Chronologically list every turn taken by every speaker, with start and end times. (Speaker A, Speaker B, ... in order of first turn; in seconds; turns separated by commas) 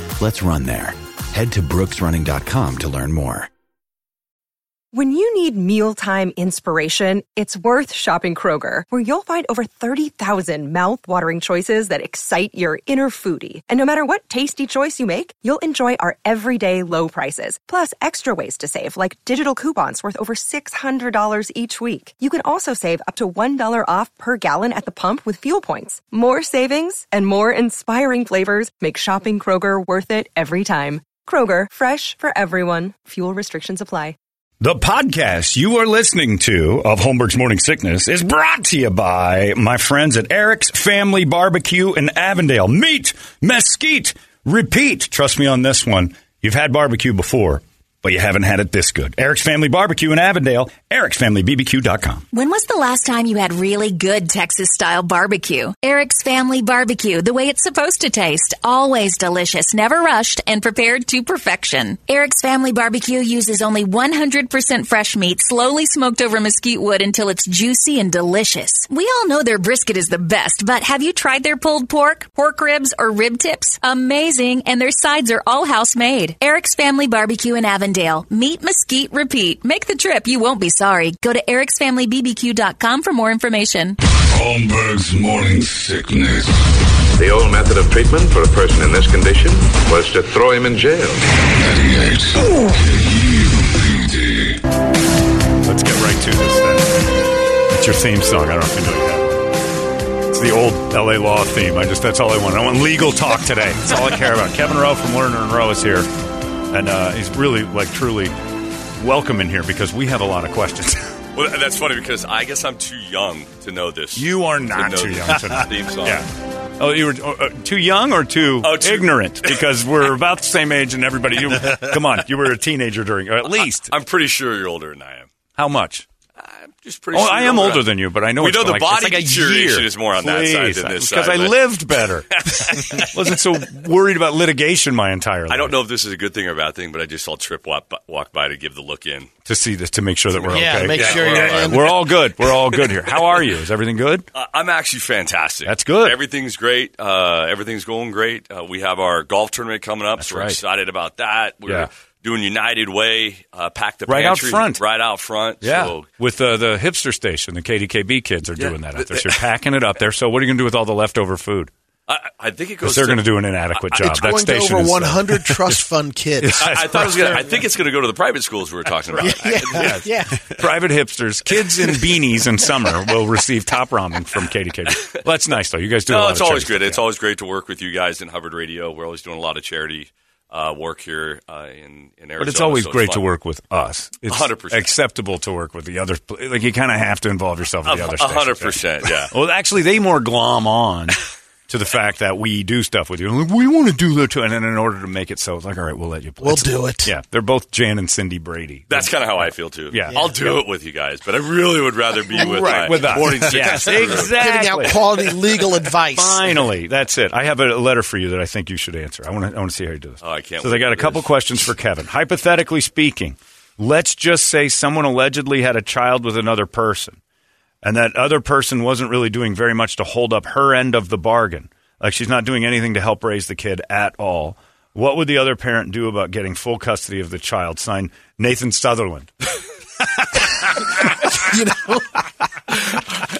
Speaker A: 0.2-3.5, Speaker B: 4.9-34.1, Speaker C: 34.6-52.2, Speaker D: 52.3-84.0, Speaker E: 84.3-94.6, Speaker C: 95.6-97.1, Speaker C: 97.7-99.5, Speaker C: 100.3-106.1, Speaker C: 106.7-108.3, Speaker C: 109.0-111.2, Speaker F: 111.3-116.2, Speaker C: 114.1-123.9, Speaker F: 118.6-119.6, Speaker F: 123.5-125.3, Speaker C: 125.5-126.0, Speaker F: 126.4-133.2, Speaker C: 127.1-135.8, Speaker F: 135.5-139.3, Speaker C: 139.4-144.2, Speaker F: 140.3-143.4, Speaker G: 140.5-142.0, Speaker F: 144.3-156.1, Speaker C: 145.6-146.2, Speaker C: 150.2-150.6, Speaker C: 154.1-154.8, Speaker C: 155.6-161.7, Speaker F: 158.6-159.4, Speaker F: 162.1-164.4, Speaker C: 162.8-165.8, Speaker G: 164.0-167.4, Speaker C: 166.4-167.4, Speaker F: 166.6-170.0, Speaker G: 169.1-170.6, Speaker C: 169.7-177.0, Speaker F: 176.1-183.2, Speaker C: 182.4-200.2, Speaker F: 184.3-184.9, Speaker F: 187.8-189.3, Speaker G: 196.4-197.1, Speaker F: 198.9-204.9, Speaker G: 200.1-200.6, Speaker C: 202.3-205.1, Speaker G: 202.4-206.6, Speaker C: 206.1-217.2, Speaker F: 210.2-211.3, Speaker C: 217.8-229.3, Speaker G: 231.3-232.2